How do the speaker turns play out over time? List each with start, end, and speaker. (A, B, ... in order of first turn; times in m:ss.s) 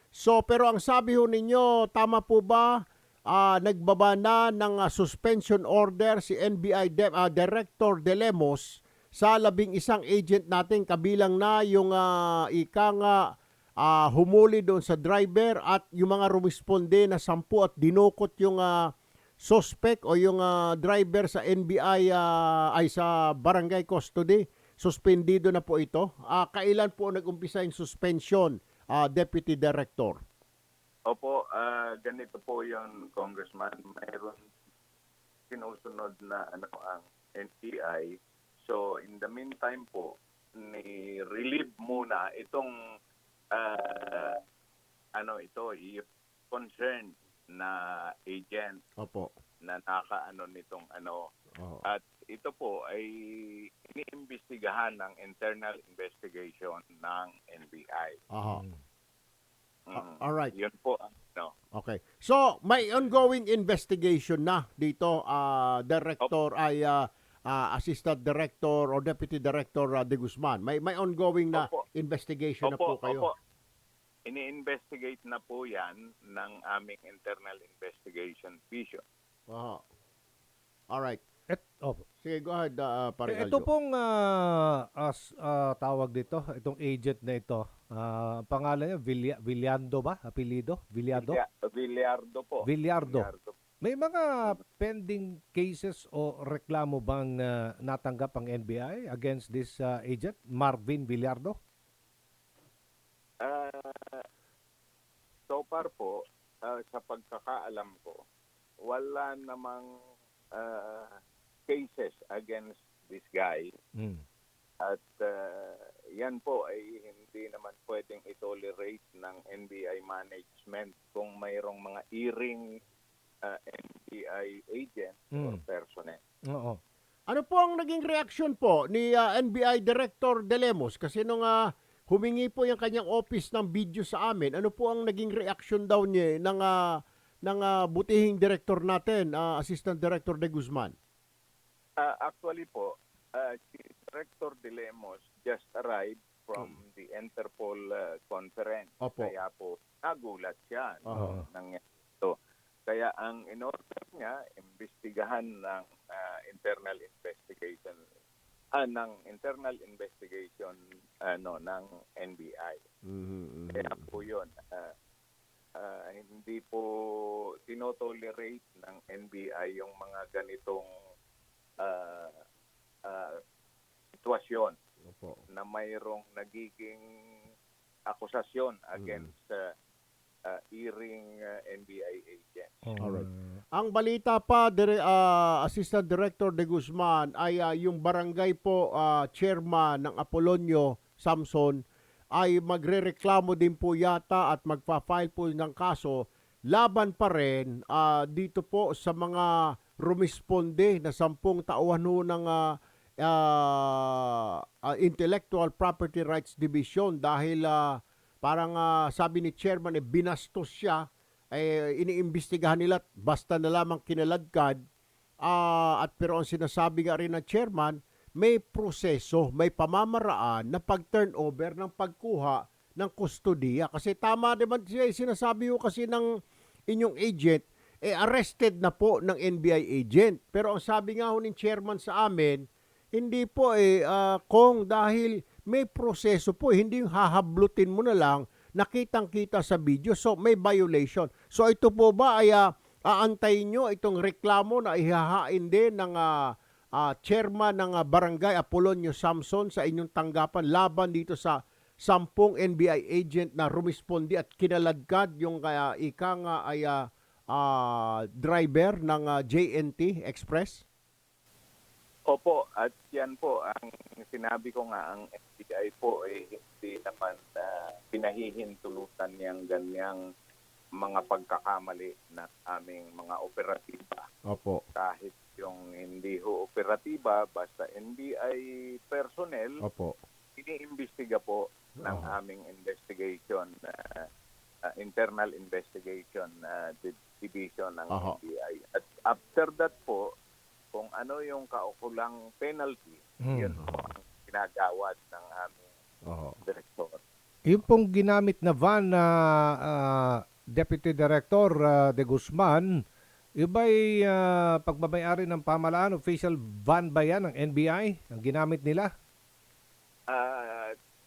0:00.1-0:02.8 A
0:03.3-0:13.2 A
0:13.8-0:30.2 A
0:31.1-0:34.4 B
0:35.5-0:42.7 B
0:43.6-0:44.4 B
0:45.2-0:48.8 B
0:49.0-0:49.3 A
0:49.6-0:51.2 B
0:51.6-0:51.8 A
0:51.8-0:58.2 B
0:58.3-0:58.6 A
0:59.9-1:01.5 B
0:59.9-1:00.5 A
1:01.7-1:13.3 A
1:11.5-1:11.8 B
1:12.6-1:13.3 B
1:14.3-1:19.0 B
1:19.5-1:19.8 A
1:20.9-1:21.2 A
1:22.2-1:23.7 A
1:23.7-1:24.0 C
1:25.1-1:27.6 C
1:28.1-1:31.3 C
1:31.1-1:33.6 B
1:32.7-1:33.2 C
1:33.9-1:34.2 C
1:34.8-1:41.5 C
1:43.4-1:44.2 B
1:45.5-1:48.2 B
1:48.9-1:49.9 B
1:50.5-1:51.1 B
1:51.7-1:53.7 B
1:54.8-2:02.6 B
2:03.4-2:06.2 B
2:07.3-2:20.9 A
2:22.0-2:32.3 B
2:29.0-2:29.3 A
2:32.9-2:38.0 B
2:38.8-2:42.8 B
2:43.0-2:44.1 A
2:43.7-2:44.9 B
2:45.8-2:50.9 B
2:51.8-2:52.4 B
2:53.1-2:53.4 B
2:54.2-2:54.8 B
2:55.1-2:55.4 A
2:55.5-2:57.0 B
2:58.1-2:59.5 B
2:59.0-2:59.3 A
3:00.5-3:02.8 B
3:03.0-3:11.8 A
3:12.4-3:34.8 A
3:35.4-3:46.3 A
3:46.9-4:20.8 A
4:22.3-4:30.2 B
4:31.0-4:34.2 B
4:34.5-4:34.8 A
4:35.0-4:39.8 B
4:39.8-4:40.1 A
4:40.6-4:44.2 B
4:42.0-4:42.3 A
4:45.0-4:50.2 B
4:48.1-4:48.4 A
4:50.9-4:55.8 B
4:53.8-4:54.1 A
4:56.3-4:56.6 A
4:56.6-4:57.2 B
4:57.7-4:59.2 C
4:59.9-5:02.9 C
5:03.6-5:09.1 C
5:10.3-5:10.9 B